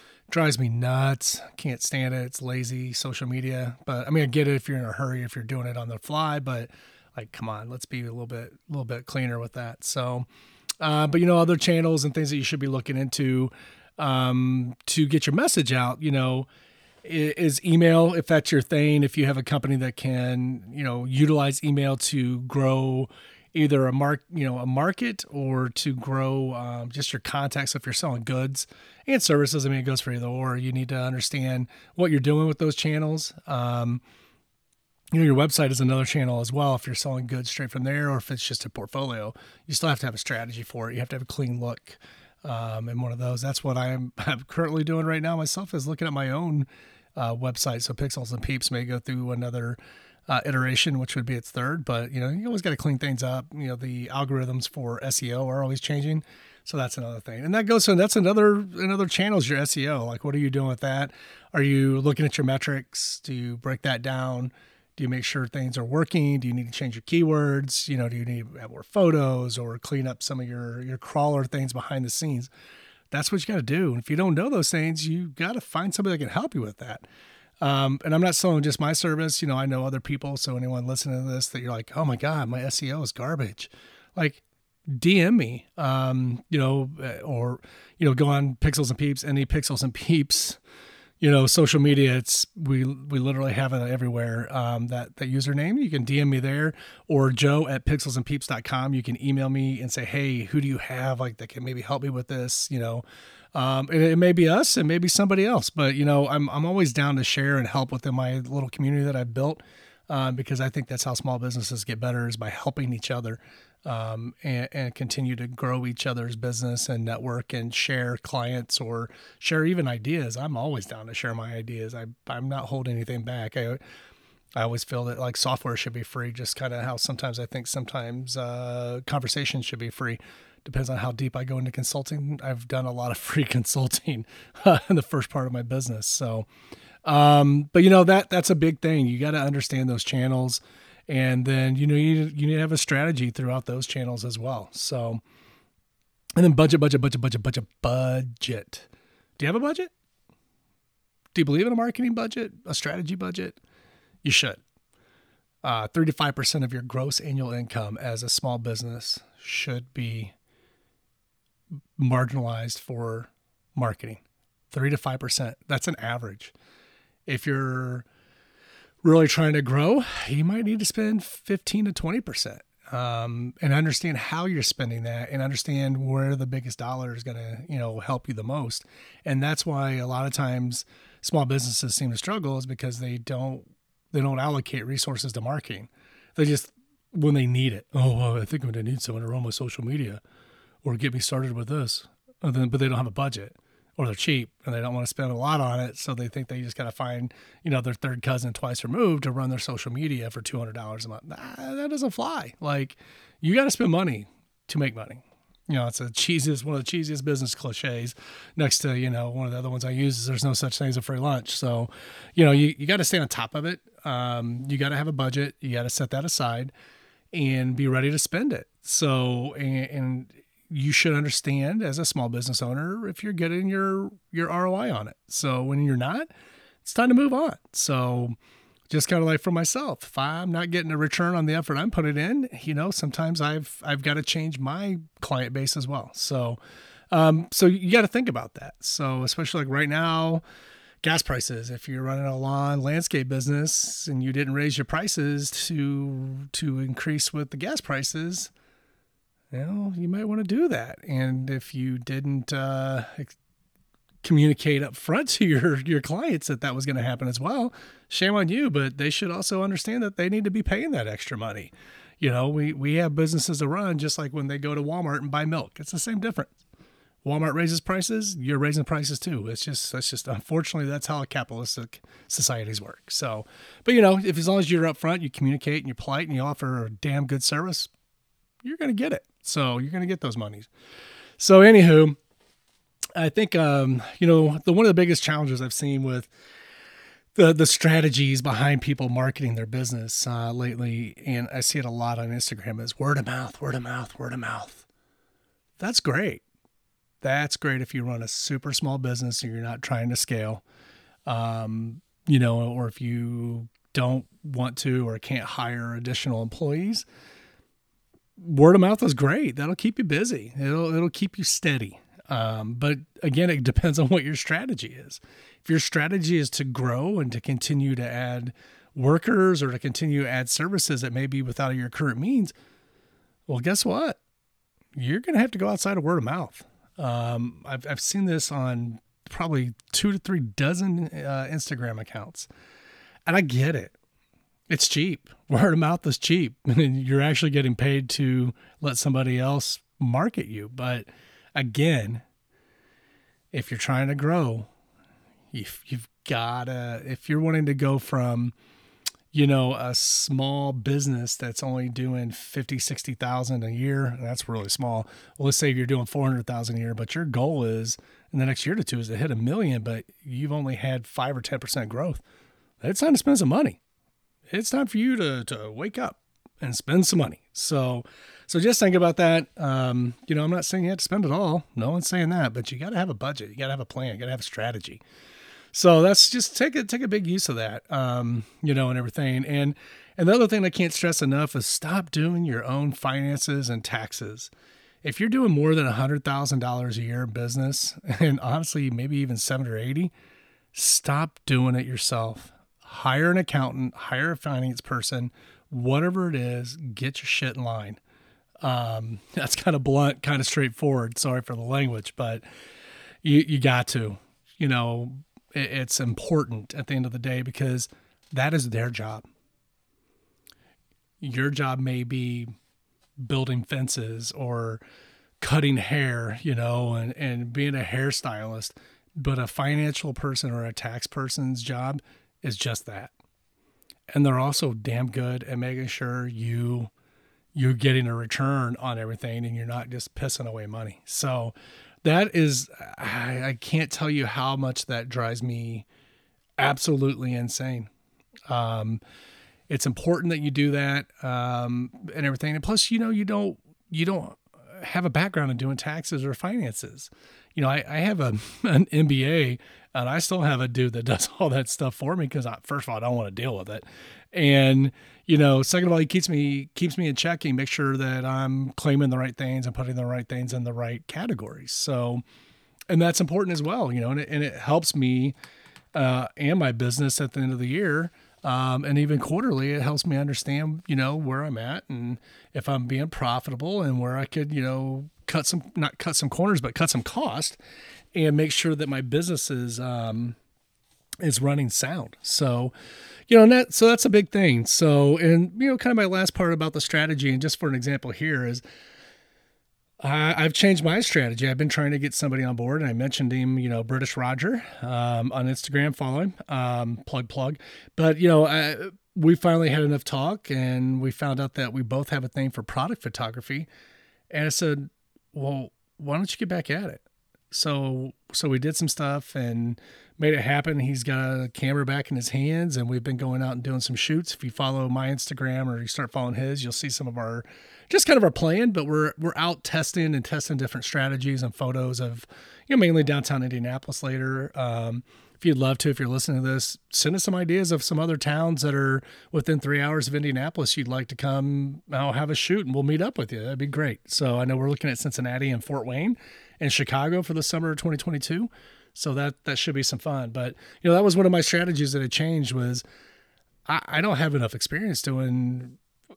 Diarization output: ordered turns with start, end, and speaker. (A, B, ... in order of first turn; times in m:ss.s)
0:00.3-0:10.3 A
0:10.8-0:16.5 A
0:17.0-0:34.0 A
0:35.1-1:12.5 A
1:13.1-1:17.0 A
1:17.6-1:30.6 A
1:31.2-2:03.8 A
2:04.6-2:16.5 A
2:17.0-2:25.2 A
2:26.4-2:28.9 A
2:29.4-2:29.9 A
2:31.3-2:33.6 A
2:34.2-2:34.6 A
2:35.6-2:40.3 A
2:42.0-2:46.5 A
2:47.2-2:48.0 A
2:49.0-3:10.2 A
3:10.8-3:36.7 A
3:37.3-3:46.3 A
3:46.8-3:48.4 A
3:48.9-3:56.6 A
3:57.1-4:00.4 A
4:01.0-4:08.5 A
4:09.5-4:13.4 A
4:14.2-4:26.6 A
4:27.2-4:37.9 A
4:38.6-4:40.7 A
4:41.4-4:42.2 A
4:43.1-4:46.3 A
4:47.3-4:54.9 A
4:55.8-4:56.4 A
4:57.2-5:00.6 A
5:01.2-5:07.0 A
5:08.4-5:22.5 A
5:23.5-5:24.2 A
5:25.0-5:32.5 A
5:33.2-5:34.0 A
5:34.7-5:42.2 A
5:43.5-5:44.7 A
5:45.5-5:48.5 A
5:49.3-6:02.2 A
6:02.8-6:03.8 A
6:04.5-6:15.0 A
6:15.7-6:24.5 A
6:25.0-6:30.1 A
6:30.7-6:38.0 A
6:38.6-6:42.4 A
6:43.2-6:49.3 A
6:51.2-6:52.5 A
6:53.2-6:54.8 A
6:55.4-7:03.1 A
7:04.1-7:06.9 A
7:07.5-7:15.9 A
7:16.6-7:17.9 A
7:18.5-7:19.0 A
7:19.7-7:42.2 A
7:42.9-7:45.3 A
7:45.9-7:57.6 A
7:58.1-8:00.4 A
8:01.2-8:02.7 A
8:03.3-8:08.6 A
8:10.0-8:23.7 A
8:24.3-9:02.8 A
9:03.6-9:05.8 A